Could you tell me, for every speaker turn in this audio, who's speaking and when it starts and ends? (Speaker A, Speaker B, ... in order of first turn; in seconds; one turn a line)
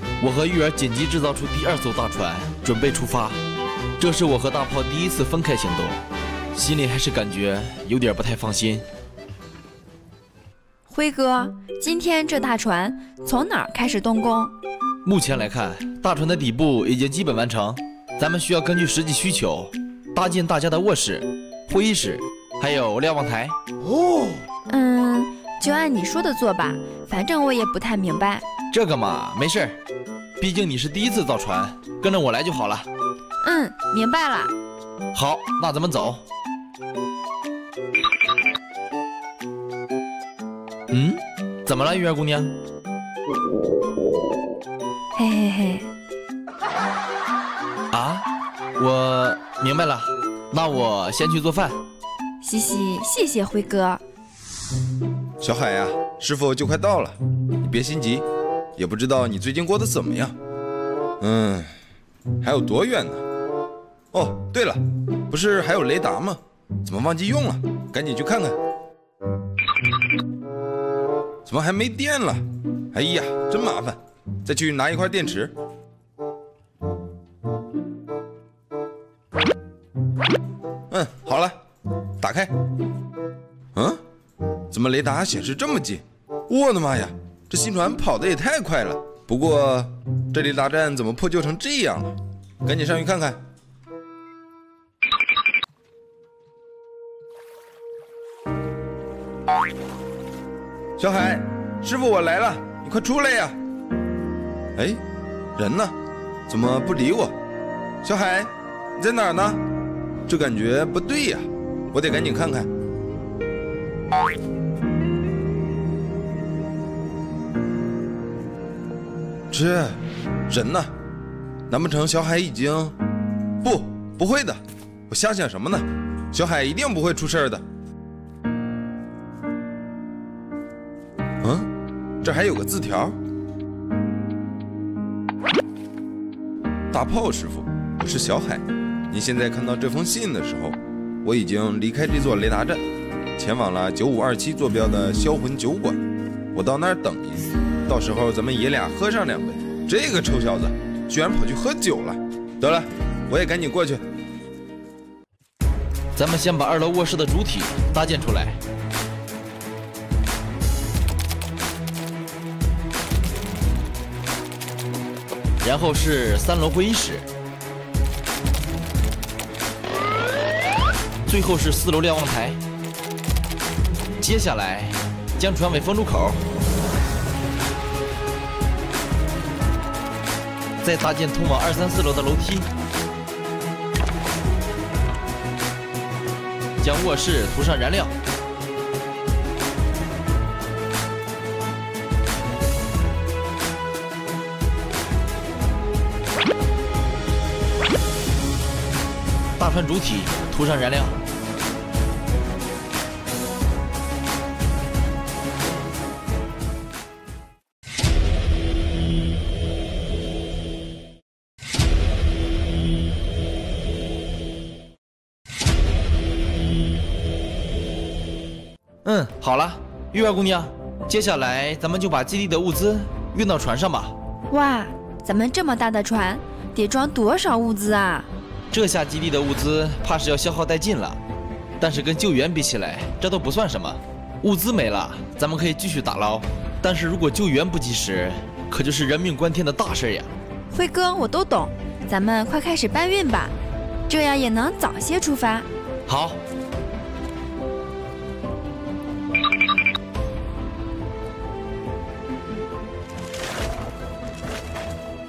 Speaker A: 0.2-3.4
Speaker A: 4.0-6.0
Speaker A: 6.5-8.8
Speaker B: 10.9-14.5
Speaker A: 15.0-23.6
Speaker C: 23.9-24.3
Speaker B: 24.7-28.4
Speaker A: 28.7-29.8
Speaker A: 30.4-32.9
Speaker B: 33.4-34.5
Speaker A: 35.1-36.2
Speaker A: 40.9-42.5
Speaker B: 45.1-45.9
Speaker A: 47.9-48.2
Speaker A: 48.8-51.8
Speaker B: 52.4-54.0
Speaker C: 55.4-58.2
Speaker C: 58.8-60.3
Speaker C: 61.2-61.7
Speaker C: 62.4-63.2
Speaker C: 64.1-68.6
Speaker C: 71.4-75.5
Speaker C: 80.9-81.5
Speaker C: 82.2-82.5
Speaker C: 83.7-84.0
Speaker C: 84.7-93.4
Speaker C: 101.0-103.6
Speaker C: 104.8-105.0
Speaker C: 105.5-105.9
Speaker C: 106.5-107.3
Speaker C: 108.0-109.6
Speaker C: 110.3-112.7
Speaker C: 119.5-120.9
Speaker C: 121.7-122.9
Speaker C: 123.6-127.6
Speaker C: 131.4-131.7
Speaker C: 132.2-133.2
Speaker C: 136.9-142.8
Speaker C: 143.4-146.0
Speaker C: 146.5-154.0
Speaker A: 156.1-158.6
Speaker A: 165.6-167.3
Speaker A: 171.2-172.6
Speaker A: 174.2-176.4
Speaker A: 180.8-182.7
Speaker A: 186.8-188.1
Speaker A: 199.6-201.2
Speaker A: 219.0-224.1
Speaker B: 224.5-228.3
Speaker A: 228.7-231.2
Speaker A: 231.8-240.3
Speaker B: 240.7-243.5
Speaker B: 244.1-245.7
Speaker A: 246.1-246.4